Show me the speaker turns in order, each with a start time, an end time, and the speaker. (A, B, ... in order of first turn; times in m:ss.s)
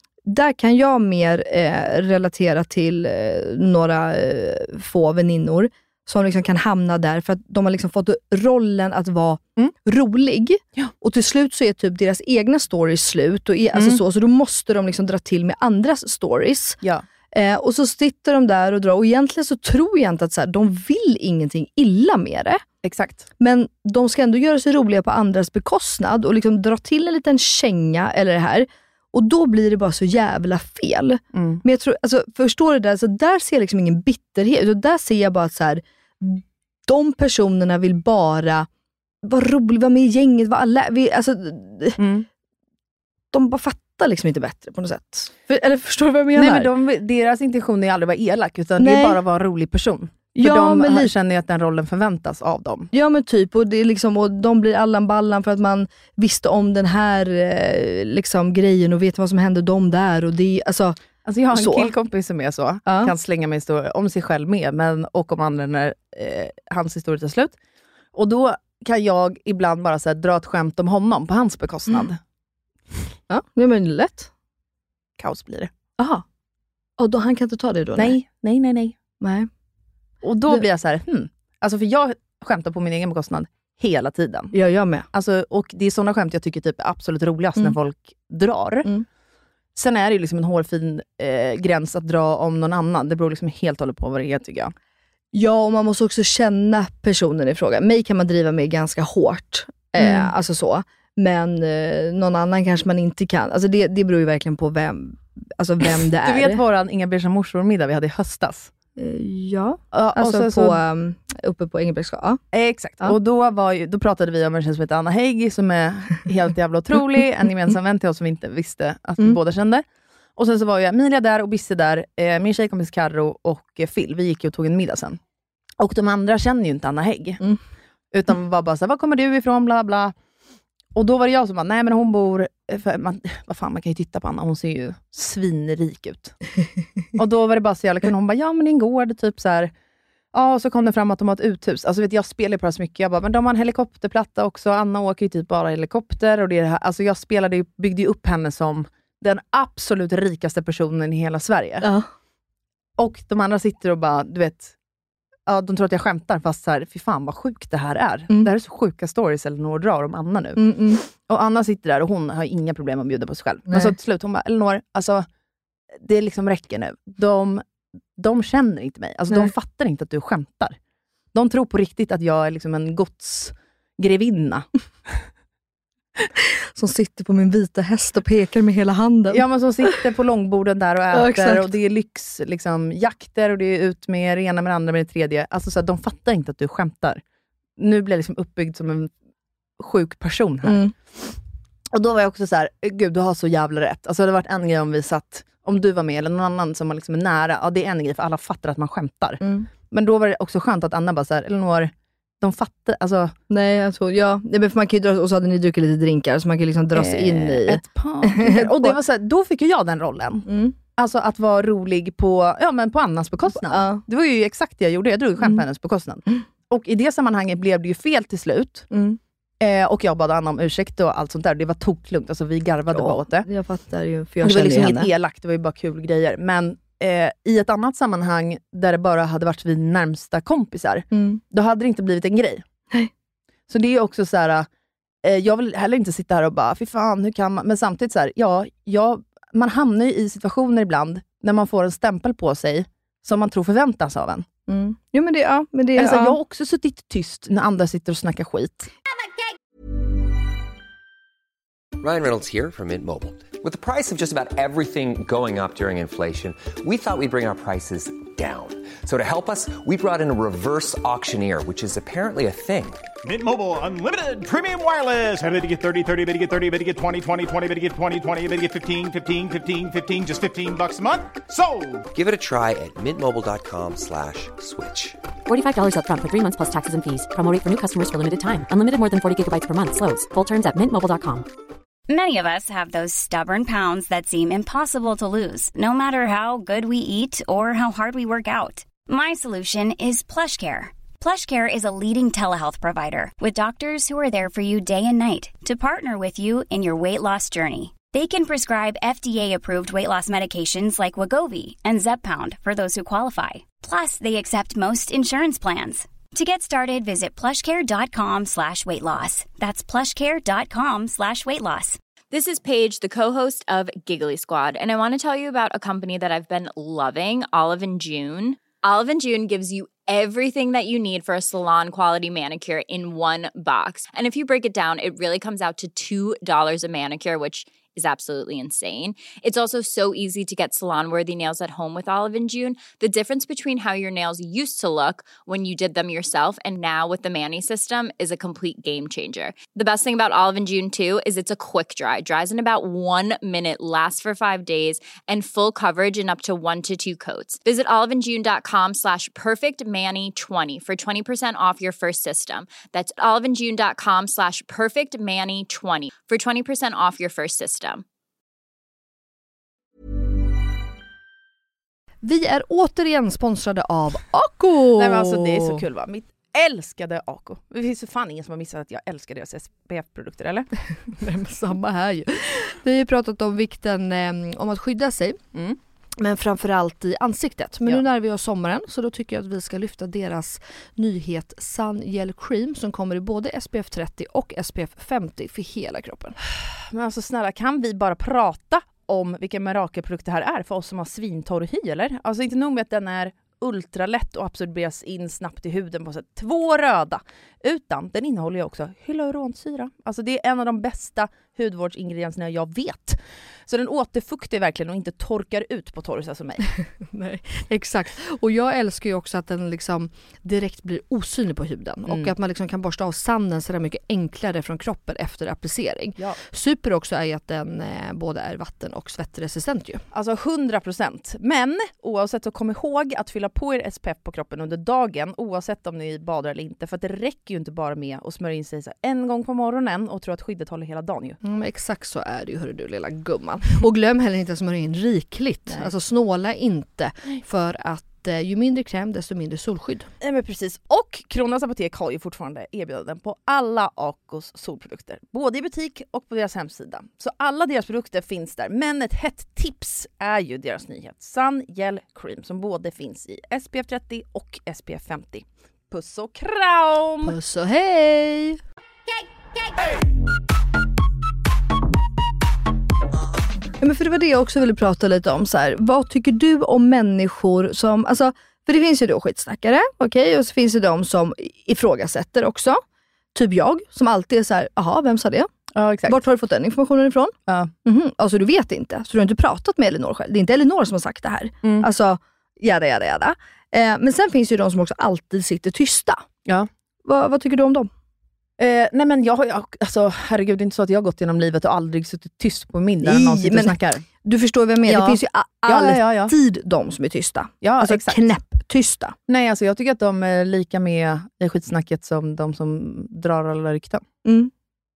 0:00.3-0:16.8 A
0:13.8-0:14.0 B
0:17.3-0:22.6 A
0:22.8-0:23.3 B
0:23.4-0:38.7 A
0:31.3-0:31.6 B
0:39.2-0:42.0 A
0:42.0-0:42.3 B
0:43.3-0:46.7 A
0:46.4-0:52.9 B
0:48.8-0:49.2 A
0:50.4-0:51.1 A
0:52.9-1:01.0 A
1:01.2-1:07.6 B
1:01.5-1:01.9 A
1:02.9-1:03.1 A
1:08.1-1:12.2 B
1:13.3-1:14.3 A
1:15.2-1:15.7 B
1:16.0-1:16.2 A
1:17.0-1:18.2 A
1:18.0-1:19.0 B
1:19.2-1:19.5 A
1:20.2-1:24.5 B
1:24.5-1:25.1 A
1:25.1-1:28.9 B
1:29.8-1:34.7 B
1:35.3-1:46.6 A
1:40.0-1:40.3 B
1:46.2-1:48.7 B
1:49.0-1:52.4 A
1:49.9-1:50.8 B
1:52.5-1:59.8 B
2:00.4-2:05.2 B
2:05.8-2:07.4 B
2:08.1-2:10.1 B
2:11.0-2:16.4 B
2:17.2-2:19.7 B
2:20.3-2:31.9 B
2:31.8-2:32.1 A
2:33.0-2:34.7 B
2:35.5-2:45.3 B
2:40.6-2:41.0 A
2:43.7-2:43.9 A
2:45.9-2:47.6 B
2:48.2-2:50.8 B
2:51.3-2:55.2 B
2:56.8-3:00.0 A
2:59.3-3:07.2 B
3:01.1-3:01.7 A
3:07.8-3:09.1 B
3:09.8-3:11.3 B
3:10.6-3:10.9 A
3:11.9-3:23.3 B
3:19.4-3:19.7 A
3:23.5-3:29.0 A
3:27.0-3:38.9 B
3:30.5-3:30.8 A
3:33.6-3:34.0 A
3:38.9-3:39.2 A
3:39.6-3:43.5 B
3:42.9-3:45.1 A
3:44.4-3:52.6 B
3:51.1-3:51.4 A
3:53.7-3:54.7 B
3:55.2-4:04.5 B
4:04.7-4:06.4 A
4:06.0-4:08.9 B
4:12.0-4:23.0 C
4:23.2-4:32.0 D
4:32.1-4:35.2 C
4:35.5-4:41.5 E
4:42.1-5:12.0 F
5:12.3-5:58.0 G
6:02.2-6:05.8 A
6:05.0-6:10.7 B
6:11.0-6:15.4 A
6:16.2-6:26.4 A
6:26.5-6:46.7 B
6:47.0-7:00.0 A
6:52.1-6:52.3 B
7:00.1-7:11.4 B
7:11.4-7:20.1 A
7:20.2-7:37.4 B
7:37.2-7:38.6 A
7:43.8-7:52.8 A
7:53.4-7:55.5 A
7:55.7-7:56.2 B
7:56.1-7:57.3 A
7:57.5-7:57.7 B
7:57.8-8:06.2 A
8:01.6-8:01.9 B
8:07.0-8:07.9 A
8:08.6-8:14.0 B
8:13.0-8:19.2 A
8:14.9-8:16.3 B
8:17.6-8:18.2 B
8:19.3-8:24.1 B
8:24.2-8:24.5 A